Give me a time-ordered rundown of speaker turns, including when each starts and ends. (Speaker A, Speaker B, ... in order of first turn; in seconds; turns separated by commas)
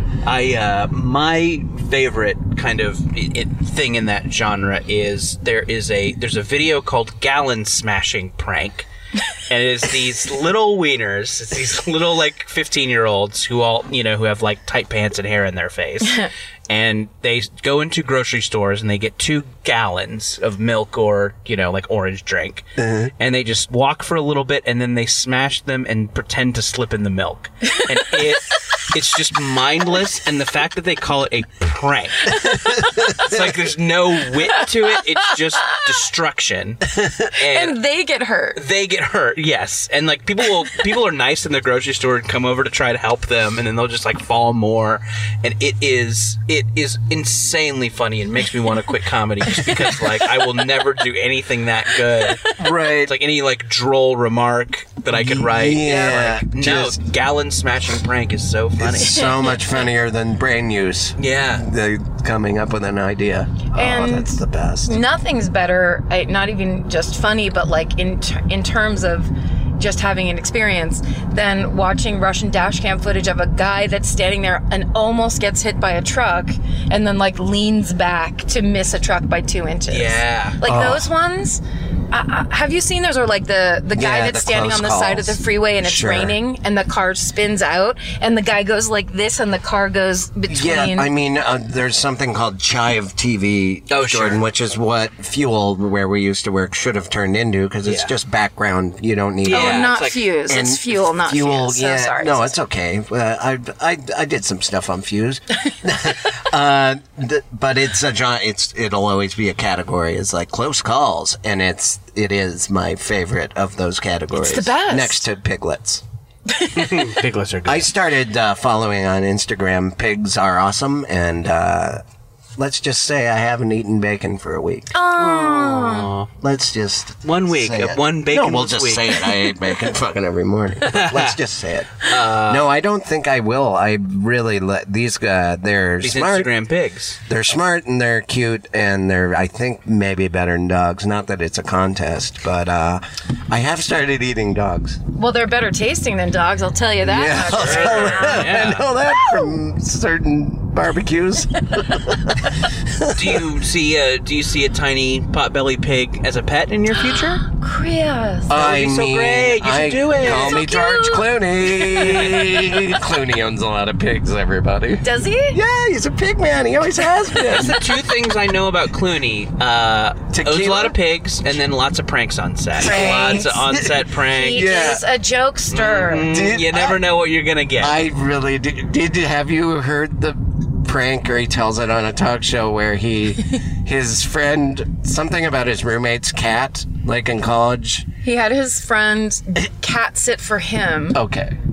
Speaker A: 0.2-37.8, Speaker B: 22.8-23.1, Speaker C: 32.5-33.1, Speaker C: 37.4-38.6, Speaker A: 38.5-59.3, Speaker B: 52.6-53.1, Speaker B: 55.1-57.0, Speaker B: 58.8-65.0, Speaker C: 59.1-59.5, Speaker A: 61.2-61.6, Speaker C: 63.7-91.1, Speaker A: 79.9-80.6, Speaker B: 80.6-81.0, Speaker B: 83.9-86.3, Speaker B: 90.5-116.0, Speaker A: 93.9-94.4, Speaker A: 97.8-98.1, Speaker A: 99.5-100.3, Speaker C: 99.5-102.5, Speaker C: 114.3-115.2, Speaker C: 116.5-117.1, Speaker A: 116.7-117.9, Speaker B: 117.6-122.0, Speaker B: 122.6-124.9, Speaker C: 124.9-126.1, Speaker A: 125.2-126.3, Speaker B: 126.4-136.5, Speaker A: 127.2-129.2, Speaker A: 130.9-131.3, Speaker A: 132.0-132.7, Speaker A: 136.0-137.2, Speaker B: 137.2-145.0, Speaker C: 145.2-148.6, Speaker B: 147.0-153.4, Speaker A: 147.4-148.9, Speaker C: 149.2-149.4, Speaker A: 153.1-157.4, Speaker C: 157.2-158.6, Speaker B: 158.5-167.8, Speaker A: 158.5-160.6, Speaker C: 160.2-162.0, Speaker A: 161.9-162.5, Speaker C: 165.0-165.6, Speaker A: 167.4-175.0, Speaker B: 170.3-170.9, Speaker C: 172.8-173.7, Speaker B: 173.0-173.9, Speaker C: 174.3-176.3, Speaker B: 174.5-175.0, Speaker A: 175.7-178.0, Speaker B: 176.2-177.0, Speaker B: 177.8-188.1, Speaker C: 188.2-191.2, Speaker B: 191.1-191.6